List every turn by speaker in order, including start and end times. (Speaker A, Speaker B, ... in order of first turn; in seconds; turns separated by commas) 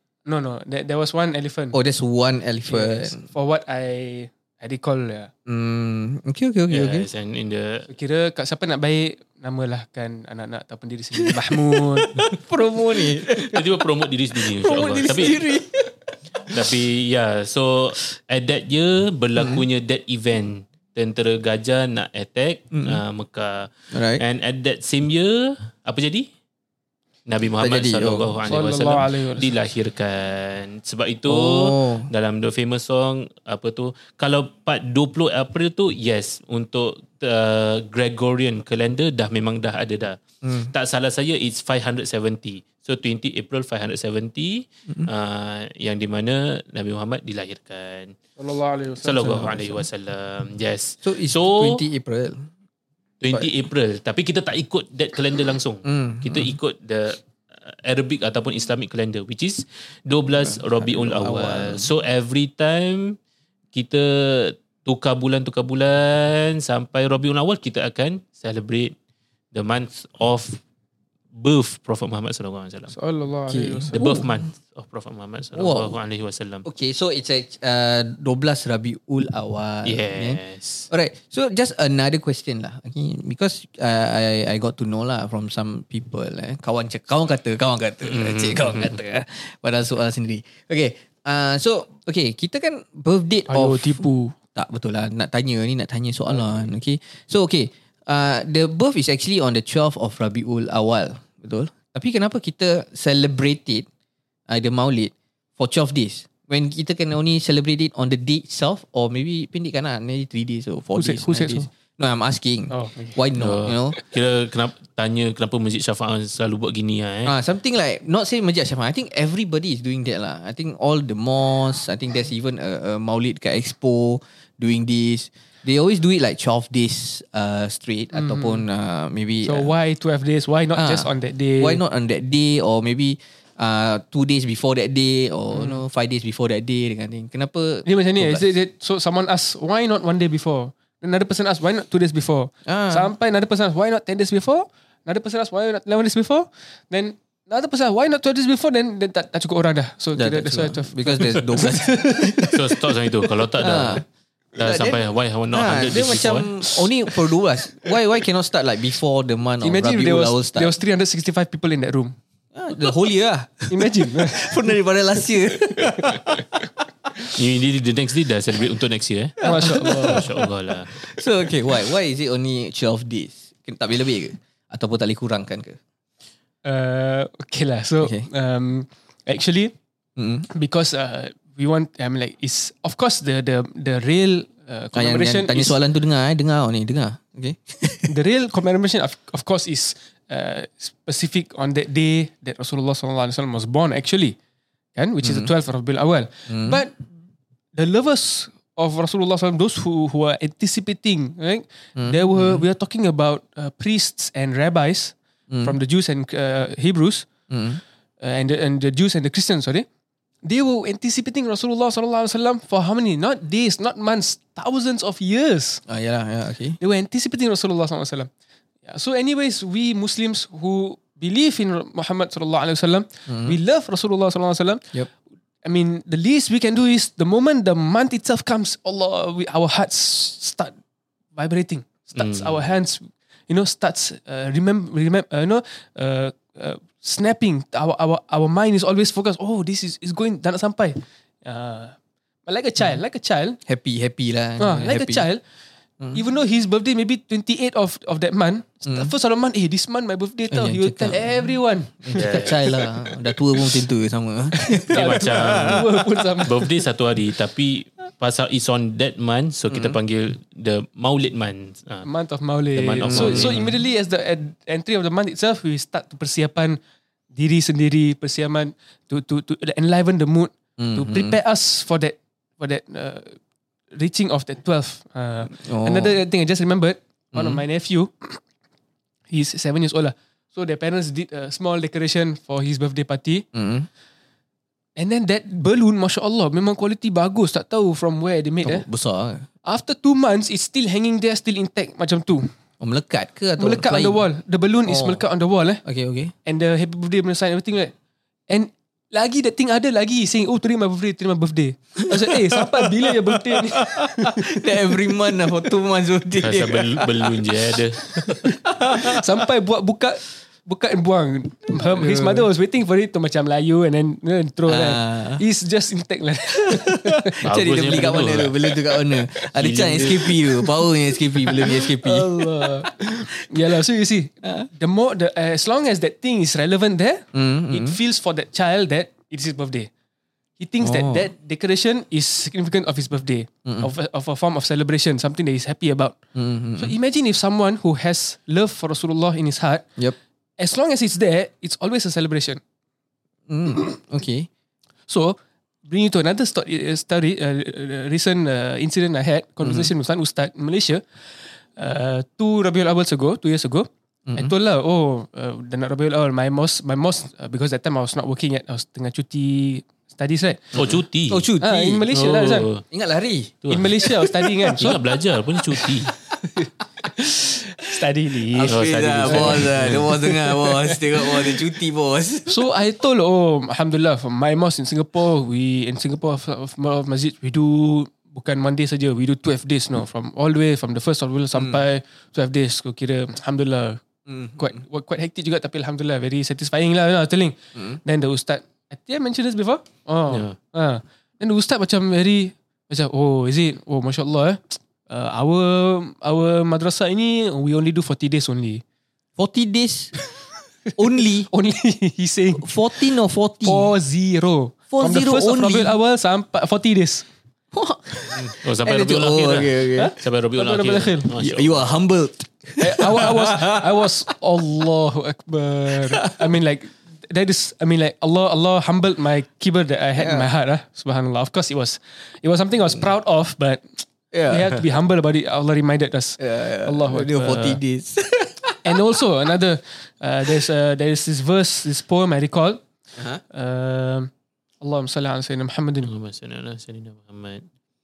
Speaker A: 0.3-1.8, Speaker B: 1.7-3.2, Speaker A: 2.7-5.3, Speaker B: 5.5-7.1, Speaker C: 6.7-7.9, Speaker A: 7.9-12.1, Speaker B: 11.2-16.6, Speaker C: 13.3-15.6, Speaker C: 16.5-26.3, Speaker B: 19.4-19.6, Speaker B: 22.7-23.0, Speaker B: 23.9-24.2, Speaker C: 27.3-48.1, Speaker B: 27.6-28.4, Speaker A: 28.4-29.5, Speaker B: 31.2-32.1, Speaker B: 40.4-40.7, Speaker A: 48.4-49.6, Speaker C: 49.0-51.8, Speaker B: 49.3-49.8, Speaker B: 51.0-52.5, Speaker C: 53.2-63.2, Speaker B: 55.8-56.6, Speaker B: 60.3-61.9, Speaker C: 63.7-68.9, Speaker C: 69.5-70.6, Speaker C: 71.3-72.9, Speaker A: 72.9-74.0, Speaker B: 73.5-74.4, Speaker C: 73.9-76.6, Speaker B: 75.5-76.0, Speaker B: 76.6-103.9, Speaker C: 79.8-80.9, Speaker C: 88.0-89.0, Speaker A: 93.5-94.3, Speaker B: 104.5-114.0, Speaker A: 111.0-111.7, Speaker A: 112.7-113.1, Speaker C: 113.3-117.3, Speaker B: 117.2-129.7, Speaker A: 128.1-128.6, Speaker A: 129.4-131.8, Speaker B: 130.7-138.5, Speaker A: 135.5-135.8, Speaker A: 137.8-152.6, Speaker B: 142.6-143.1, Speaker B: 150.1-152.6, Speaker C: 152.5-154.0, Speaker B: 153.6-154.0, Speaker C: 154.6-156.8, Speaker B: 154.6-160.7, Speaker A: 159.6-162.2, Speaker B: 162.5-166.7, Speaker A: 163.7-164.7, Speaker A: 165.7-166.4, Speaker C: 167.3-171.0, Speaker A: 169.4-170.2, Speaker B: 169.4-175.8, Speaker A: 176.6-179.7, Speaker B: 178.0-178.3, Speaker B: 180.2-180.5, Speaker A: 180.5-185.8, Speaker B: 184.9-188.1, Speaker A: 188.1-194.3, Speaker A: 194.9-196.9, Speaker B: 195.2-195.5, Speaker B: 196.5-196.8, Speaker A: 197.7-207.3, Speaker B: 201.9-202.6, Speaker B: 205.5-205.7, Speaker B: 207.5-207.8, Speaker A: 208.2-209.8, Speaker A: 210.4-215.8, Speaker B: 215.9-216.8, Speaker A: 216.8-218.3, Speaker A: 218.8-224.8, Speaker B: 223.3-223.6, Speaker A: 225.6-230.7, Speaker A: 231.3-243.6, Speaker C: 232.2-232.6, Speaker B: 243.7-245.3, Speaker A: 244.6-245.4, Speaker A: 246.1-252.9, Speaker B: 248.8-249.1, Speaker B: 250.5-251.4, Speaker B: 252.0-255.9, Speaker C: 252.1-252.7, Speaker A: 254.5-256.8, Speaker C: 254.9-255.9, Speaker C: 256.4-262.1, Speaker B: 259.7-260.0, Speaker A: 262.0-266.8, Speaker C: 262.7-263.7, Speaker B: 263.1-263.7, Speaker A: 267.3-273.4, Speaker B: 270.8-271.4, Speaker A: 273.9-278.4, Speaker B: 275.5-276.1, Speaker B: 277.3-277.6, Speaker A: 279.3-283.4, Speaker B: 283.5-283.9, Speaker A: 285.0-288.9, Speaker B: 288.6-289.5, Speaker A: 289.6-292.5, Speaker B: 292.8-294.2, Speaker A: 293.6-295.8, Speaker B: 294.9-295.2, Speaker B: 295.8-296.3, Speaker A: 296.4-297.9, Speaker A: 298.5-305.0, Speaker B: 302.1-309.2, Speaker C: 306.4-308.5, Speaker A: 308.8-317.4, Speaker B: 311.8-312.5, Speaker B: 314.7-315.4, Speaker B: 316.7-323.8, Speaker C: 317.4-318.8, Speaker C: 319.4-320.4, Speaker A: 321.5-329.9, Speaker B: 324.4-324.7, Speaker B: 327.3-328.0, Speaker A: 330.6-336.2, Speaker B: 330.8-331.3, Speaker B: 333.6-333.9, Speaker B: 336.3-336.9, Speaker A: 336.8-339.9, Speaker A: 340.6-342.6, Speaker B: 343.5-344.5, Speaker A: 345.1-351.0, Speaker B: 349.6-349.9, Speaker A: 351.7-360.8, Speaker B: 354.3-354.5, Speaker C: 360.7-361.5, Speaker B: 360.8-362.1, Speaker A: 361.6-362.7, Speaker C: 362.1-362.8, Speaker B: 362.9-365.0, Speaker C: 363.6-364.0, Speaker A: 363.7-365.0, Speaker C: 364.8-366.1, Speaker A: 366.5-371.6, Speaker B: 368.5-372.6, Speaker C: 368.7-370.1, Speaker A: 372.4-384.0, Speaker B: 384.3-384.8, Speaker A: 384.6-398.8, Speaker C: 390.3-390.6, Speaker B: 399.4-400.1, Speaker B: 401.0-401.5, Speaker A: 401.1-402.7, Speaker B: 402.6-403.9, Speaker A: 403.6-407.2, Speaker B: 404.9-405.9, Speaker B: 407.7-410.1, Speaker C: 408.3-411.9, Speaker A: 409.9-411.3, Speaker B: 411.3-414.3, Speaker A: 412.8-427.8, Speaker B: 415.9-416.5, Speaker B: 420.2-420.5, Speaker B: 424.3-424.8, Speaker B: 426.4-429.2, Speaker A: 428.8-432.8, Speaker B: 433.1-433.4, Speaker A: 433.5-434.3, Speaker A: 434.8-436.1, Speaker C: 436.0-437.7